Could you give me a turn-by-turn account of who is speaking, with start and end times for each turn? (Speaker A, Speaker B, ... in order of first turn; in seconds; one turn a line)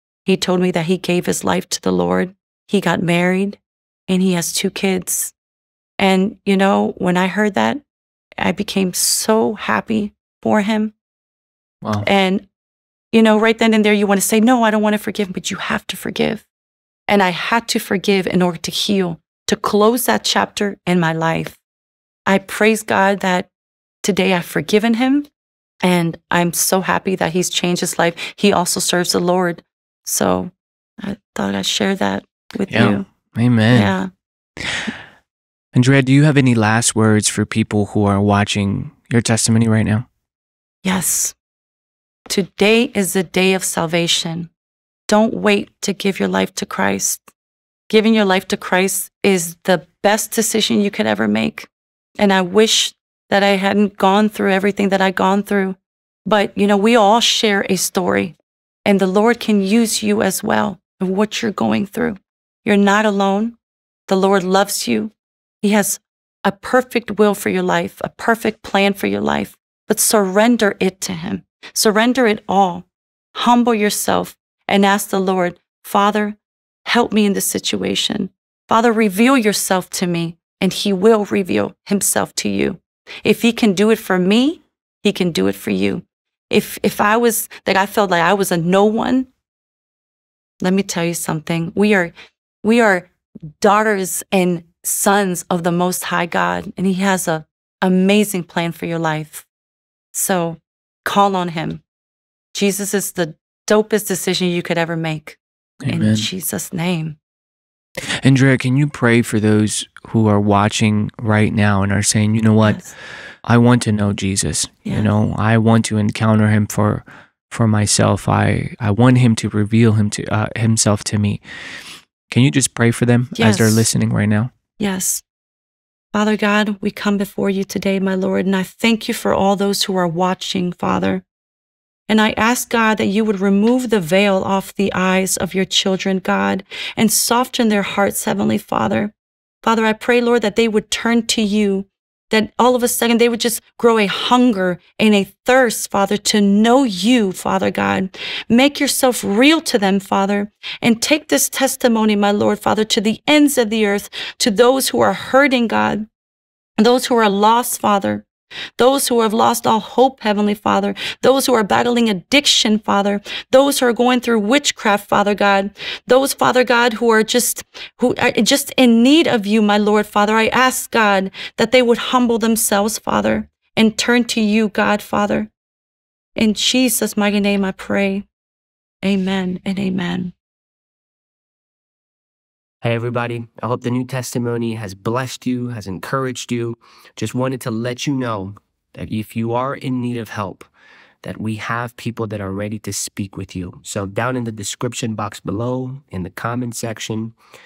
Speaker A: 0.2-5.3
Speaker A: 6.0-7.8
Speaker A: 8.4-10.9
Speaker A: 12.0-12.4
Speaker A: 13.1-16.4
Speaker A: 17.1-21.6
Speaker A: 22.2-23.5
Speaker A: 24.0-25.3
Speaker A: 25.8-33.1
Speaker B: 32.7-33.9
Speaker A: 33.7-34.1
Speaker B: 34.6-34.9
Speaker B: 35.7-40.0
Speaker A: 40.8-41.4
Speaker A: 42.3-44.5
Speaker A: 45.1-47.2
Speaker A: 47.9-58.3
Speaker A: 58.9-63.5
Speaker A: 64.1-89.3
Speaker A: 90.6-99.5
Speaker A: 100.1-101.8
Speaker A: 102.5-107.2
Speaker B: 105.8-106.3
Speaker B: 108.1-112.8
Speaker B: 113.4-121.4
Speaker A: 114.8-115.1
Speaker B: 122.3-124.5
Speaker A: 123.3-123.9
Speaker A: 124.8-125.2
Speaker A: 126.1-131.2
Speaker A: 132.1-156.1
Speaker A: 156.8-158.2
Speaker A: 158.8-175.5
Speaker A: 176.3-178.2
Speaker A: 179.0-180.3
Speaker C: 182.8-190.7
Speaker C: 191.2-197.3